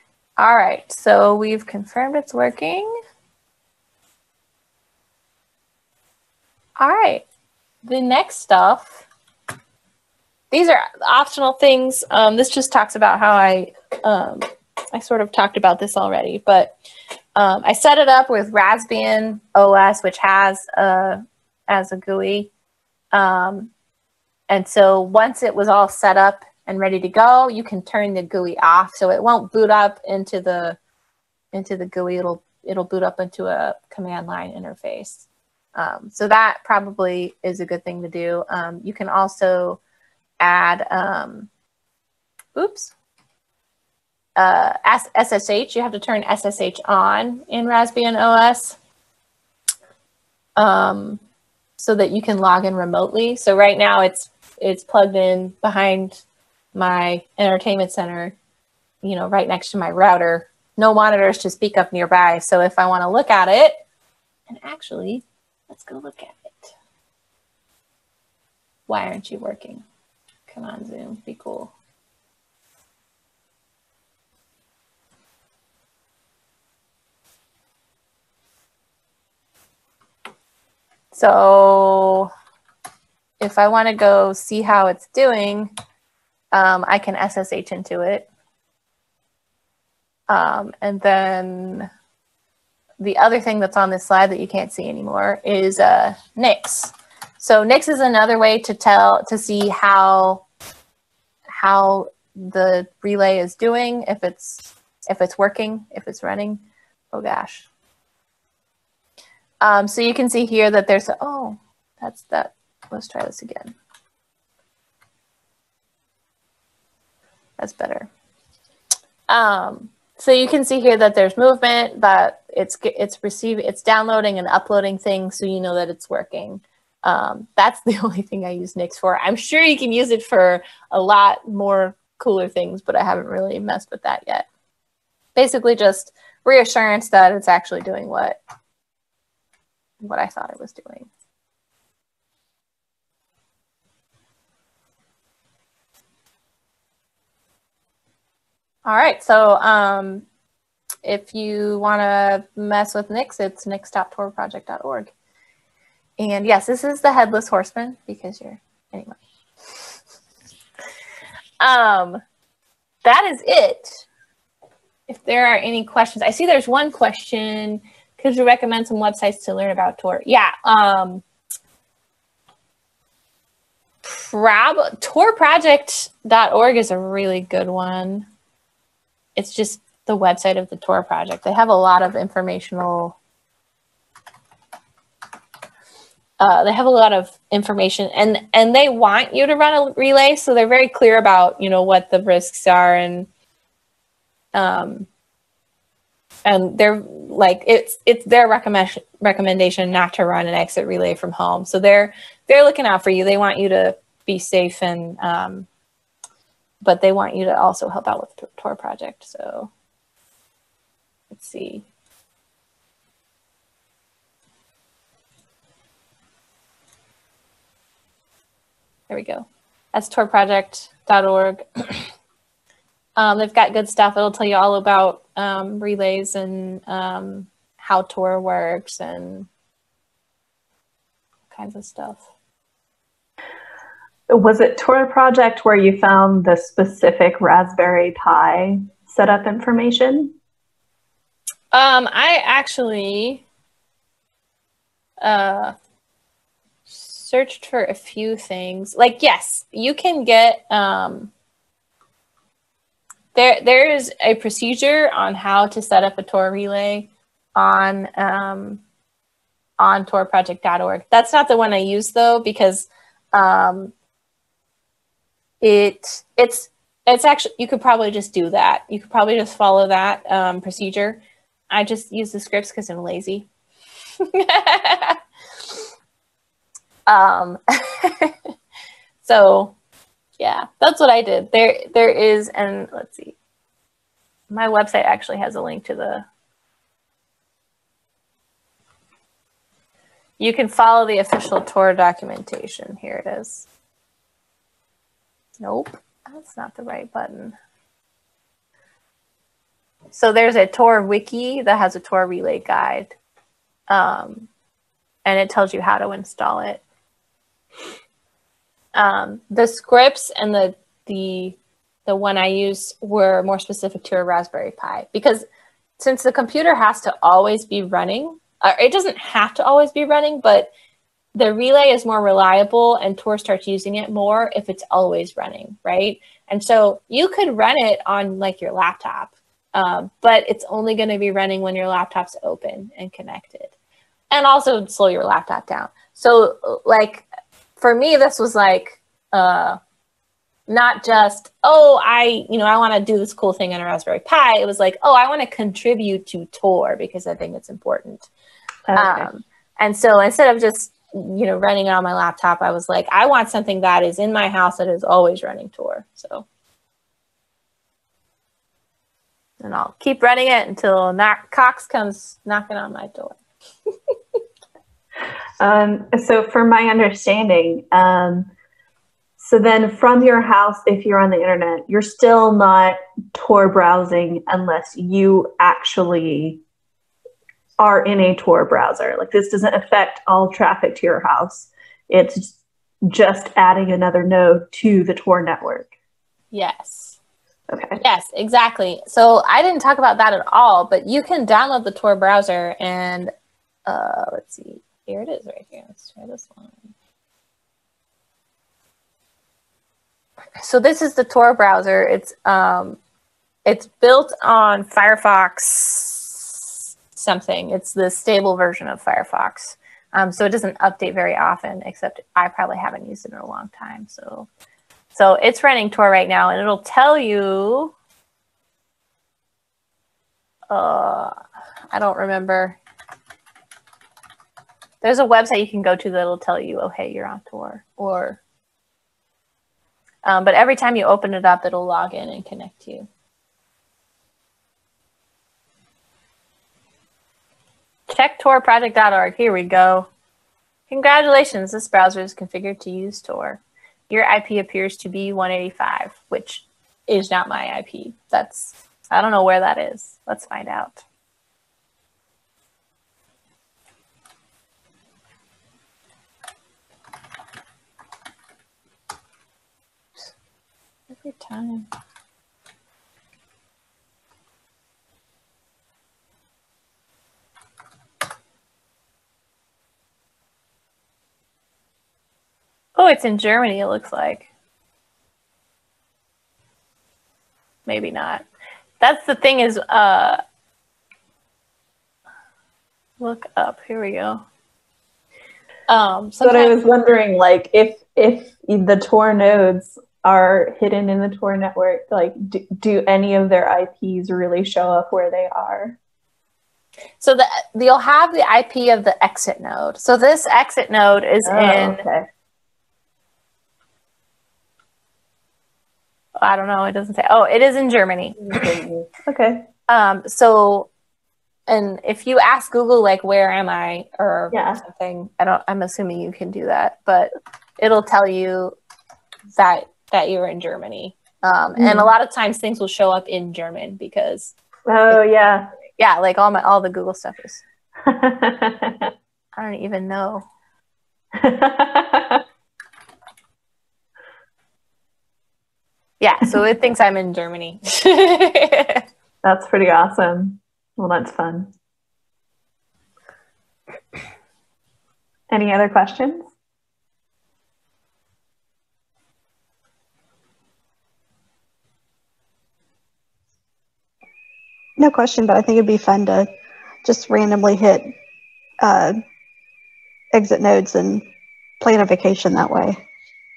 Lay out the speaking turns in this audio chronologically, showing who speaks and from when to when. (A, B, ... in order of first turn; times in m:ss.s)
0:00.4-0:02.9 A
0:06.8-0:07.2 A
0:07.8-0:09.0 A
0:10.5-0:16.7 A
0:17.4-0:22.5 A
0:23.1-0:23.7 A
0:24.5-0:30.8 A
0:31.5-0:39.8 A
0:40.4-0:41.5 A
0:42.5-0:42.9 A
0:44.4-0:48.8 A
0:50.6-0:51.2 A
0:51.8-0:56.2 A
0:56.7-0:58.3 A
0:59.0-1:03.8 A
1:04.5-1:06.7 A
1:08.9-1:09.8 A
1:10.5-1:11.7 A
1:21.1-1:22.3 A
1:23.4-1:25.7 A
1:26.5-1:28.3 A
1:30.3-1:31.9 A
1:33.0-1:40.4 A
1:41.5-1:47.7 A
1:49.6-1:53.7 A
1:57.6-1:58.1 A
1:59.3-2:14.4 A
2:15.4-2:18.4 A
2:20.0-2:21.1 A
2:28.8-2:30.2 A
2:31.0-2:35.1 A
2:36.2-2:39.2 A
2:41.6-2:42.2 A
2:43.0-2:44.0 A
2:45.1-2:51.2 A
2:54.0-2:58.3 A
2:59.4-3:03.2 A
3:06.4-3:13.3 A
3:14.5-3:15.1 A
3:16.4-3:25.7 A
3:26.8-3:29.7 A
3:31.3-3:31.8 A
3:39.1-3:42.1 A
3:43.2-3:49.5 A
3:51.5-3:52.2 A
3:54.3-4:00.4 B
4:01.7-4:03.4 A
4:05.2-4:05.7 A
4:06.9-4:11.3 A
4:13.3-4:18.8 A
4:19.8-4:23.9 A
4:25.6-4:33.5 A
4:34.2-4:35.2 A
4:37.1-4:38.3 A
4:39.2-4:39.7 A
4:40.4-4:43.4 A
4:44.5-4:46.2 A
4:50.4-4:53.7 A
4:55.6-4:57.5 A
5:00.1-5:03.1 A
5:03.9-5:04.5 A
5:05.2-5:06.8 A
5:08.9-5:15.4 A
5:16.0-5:20.7 A
5:21.3-5:33.7 A
5:34.3-5:37.2 A
5:37.8-5:39.8 A
5:40.7-5:48.3 A
5:48.9-5:49.3 B
5:48.9-5:56.4 A
5:59.6-6:03.4 A
6:05.6-6:08.5 B
6:09.4-6:16.6 B
6:17.8-6:25.9 B
6:26.5-6:27.2 A
6:27.7-6:28.0 B
6:28.0-6:33.3 A
6:33.8-6:36.9 A
6:40.6-6:43.0 A
6:43.6-6:46.6 A
6:47.1-6:54.5 A
6:55.1-6:57.9 A
7:00.7-7:01.3 A
7:01.9-7:02.8 A
7:05.0-7:08.4 A
7:10.2-7:13.1 A
7:18.1-7:20.1 A
7:20.9-7:31.0 A
7:41.1-7:41.9 A
7:53.0-7:54.5 A
7:57.8-7:58.4 A
7:59.0-8:00.4 A
8:03.2-8:04.4 A
8:05.9-8:06.7 A
8:06.4-8:16.0 B
8:17.2-8:22.0 A
8:21.4-8:22.3 B
8:26.4-8:28.7 A
8:28.4-8:29.7 B
8:29.9-8:30.9 A
8:31.7-8:38.8 A
8:34.5-8:34.8 B
8:39.5-8:44.5 A
8:41.8-8:42.1 B
8:44.9-8:45.7 B
8:46.0-8:47.6 A
8:48.0-8:49.1 B
8:49.5-8:50.4 A
8:51.3-8:52.4 B
8:56.2-8:59.0 A
8:59.4-9:01.7 B
9:05.5-9:06.5 B
9:15.0-9:16.5 C
9:17.0-9:18.1 C
9:18.8-9:19.2 C
9:20.3-9:21.2 C
9:21.8-9:23.0 C